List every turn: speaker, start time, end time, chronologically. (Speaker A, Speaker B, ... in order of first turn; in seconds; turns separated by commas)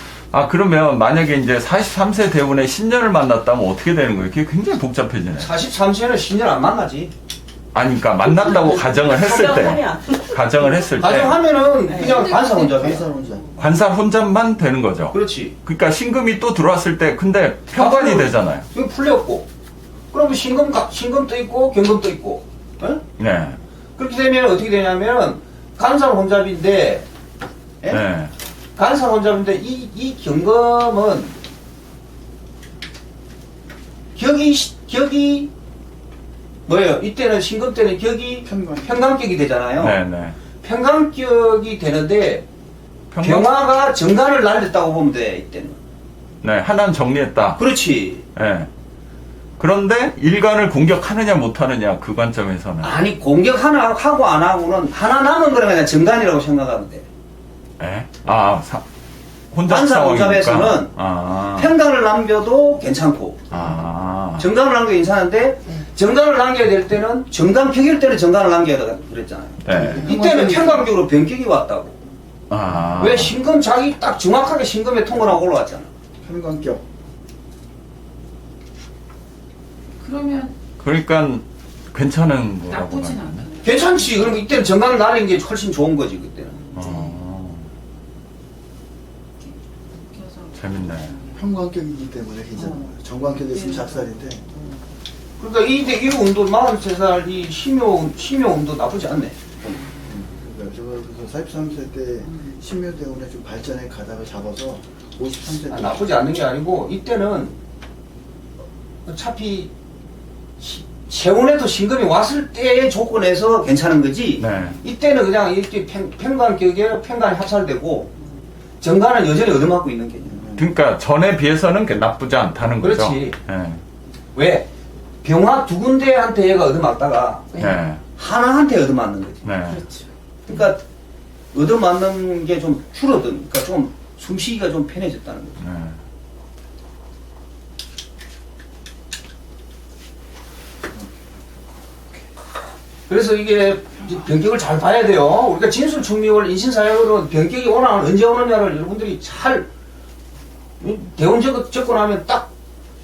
Speaker A: 0.3-5.5, Speaker B: 5.4-7.1, Speaker A: 7.7-11.4, Speaker C: 8.2-11.1, Speaker B: 11.0-13.0, Speaker C: 11.9-12.9, Speaker D: 12.5-13.5, Speaker A: 13.6-18.7, Speaker B: 15.1-15.6, Speaker B: 17.8-19.5, Speaker B: 20.1-23.1, Speaker A: 23.2-23.6, Speaker B: 24.0-27.1, Speaker A: 27.9-28.3, Speaker B: 28.8-31.4, Speaker B: 34.1-35.5, Speaker B: 36.7-40.0, Speaker D: 38.4-39.0, Speaker A: 39.8-40.4, Speaker B: 40.6-42.5, Speaker A: 43.1-43.5, Speaker B: 43.2-45.8, Speaker A: 46.4-47.6, Speaker B: 47.6-48.3, Speaker A: 48.4-48.7, Speaker A: 49.6-53.0, Speaker B: 52.8-57.1, Speaker A: 57.8-58.9, Speaker A: 59.5-61.7, Speaker B: 59.7-63.8, Speaker A: 63.5-64.5, Speaker B: 64.4-72.0, Speaker A: 69.6-70.1, Speaker D: 69.7-71.0, Speaker A: 72.5-73.3, Speaker B: 73.0-75.9, Speaker D: 76.2-76.8, Speaker E: 80.0-80.6, Speaker A: 80.8-83.5, Speaker E: 82.7-84.7, Speaker B: 83.6-86.8, Speaker A: 86.8-87.7, Speaker E: 89.4-91.4, Speaker A: 90.6-91.2, Speaker D: 91.3-94.5, Speaker E: 92.5-94.8, Speaker B: 95.4-99.8, Speaker D: 100.0-106.0, Speaker B: 105.7-107.6, Speaker B: 109.1-109.7, Speaker B: 110.6-118.1, Speaker A: 114.4-114.8, Speaker B: 118.8-120.5, Speaker D: 120.3-120.7, Speaker A: 120.5-123.8, Speaker B: 122.8-123.4, Speaker B: 124.3-124.7, Speaker B: 125.2-127.6, Speaker C: 127.5-127.8, Speaker A: 127.6-128.1, Speaker B: 128.2-129.5, Speaker A: 129.4-129.8, Speaker C: 129.7-130.1, Speaker B: 130.5-130.8, Speaker B: 131.5-135.6, Speaker A: 135.6-136.0, Speaker B: 143.1-149.7, Speaker B: 150.8-152.5